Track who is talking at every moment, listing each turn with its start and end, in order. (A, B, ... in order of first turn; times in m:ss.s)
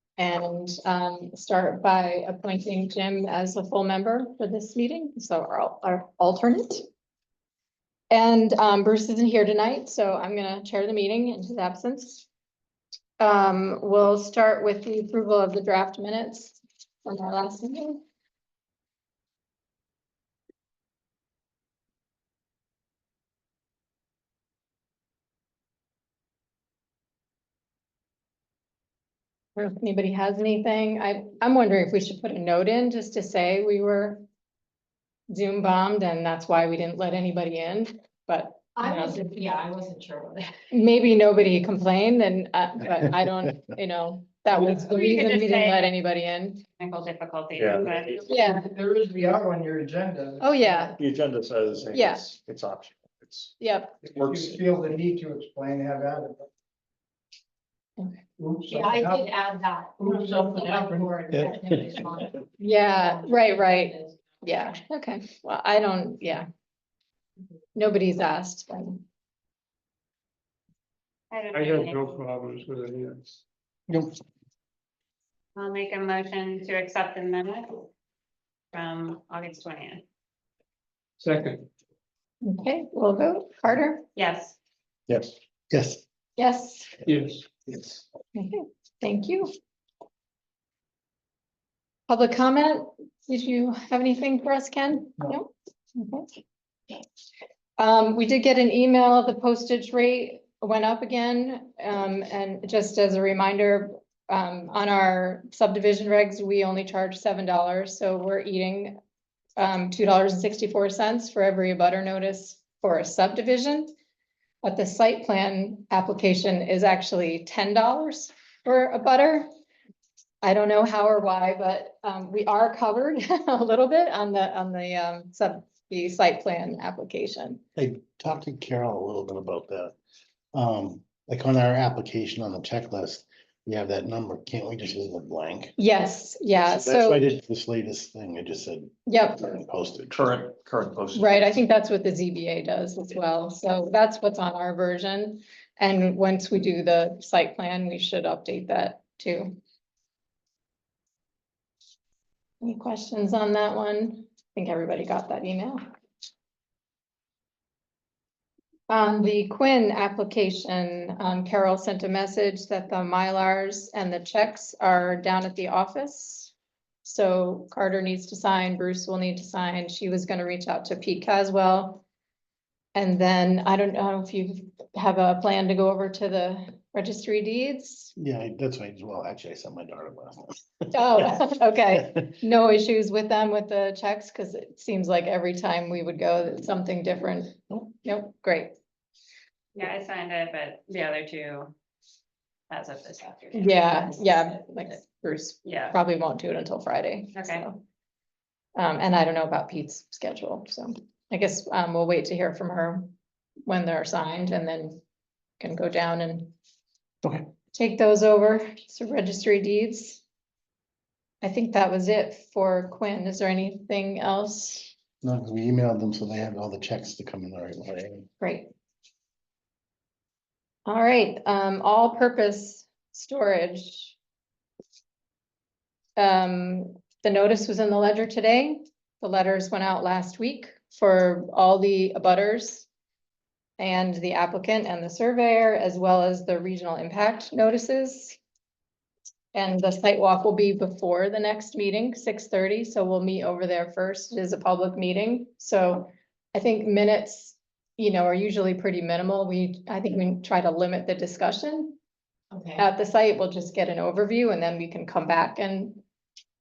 0:00.2-0:06.8 A
0:08.1-0:12.2 A
0:13.2-0:18.0 A
0:29.6-0:34.2 A
0:35.3-0:39.2 A
0:38.8-0:40.5 B
0:40.7-0:46.6 A
0:44.7-0:45.8 C
0:46.8-0:48.2 C
0:47.5-0:48.3 D
0:48.3-0:48.7 A
0:48.5-0:50.9 E
0:50.4-0:51.0 A
0:51.0-0:54.6 D
0:51.9-0:52.2 A
0:53.6-0:54.0 A
0:54.1-0:56.4 E
0:58.4-0:59.3 E
0:58.7-1:04.2 B
1:00.0-1:01.1 E
1:02.6-1:06.5 A
1:07.7-1:09.0 A
1:11.3-1:12.2 C
1:11.5-1:13.4 F
1:13.9-1:14.1 G
1:15.6-1:17.9 C
1:18.7-1:20.0 C
1:21.2-1:21.6 F
1:22.4-1:24.1 A
1:24.2-1:24.6 C
1:25.7-1:26.0 G
1:26.4-1:26.9 A
1:27.1-1:27.5 F
1:28.3-1:29.5 A
1:32.1-1:36.3 A
1:37.8-1:49.0 A
1:49.6-1:53.9 A
1:54.6-1:59.5 A
2:00.4-2:07.6 A
2:07.8-2:09.9 G
2:10.5-2:15.8 G
2:15.8-2:17.2 A
2:16.6-2:20.2 G
2:19.1-2:19.5 A
2:20.1-2:21.4 D
2:21.1-2:29.6 A
2:32.6-2:35.8 A
2:38.9-2:46.5 A
2:47.0-2:52.0 A
2:52.9-2:58.1 A
2:58.2-3:01.4 G
3:00.9-3:08.7 A
3:09.7-3:11.7 C
3:12.7-3:14.6 C
3:13.5-3:17.8 A
3:15.6-3:16.0 C
3:17.3-3:17.6 C
3:18.8-3:23.1 A
3:23.6-3:25.0 A
3:25.6-3:26.5 A
3:27.7-3:30.2 A
3:31.4-3:34.9 A
3:35.2-3:38.3 G
3:38.4-3:38.7 A
3:40.8-3:44.2 A
3:46.2-3:52.9 A
3:53.8-3:58.4 A
3:59.5-4:12.0 A
4:12.5-4:12.8 B
4:12.8-4:16.0 A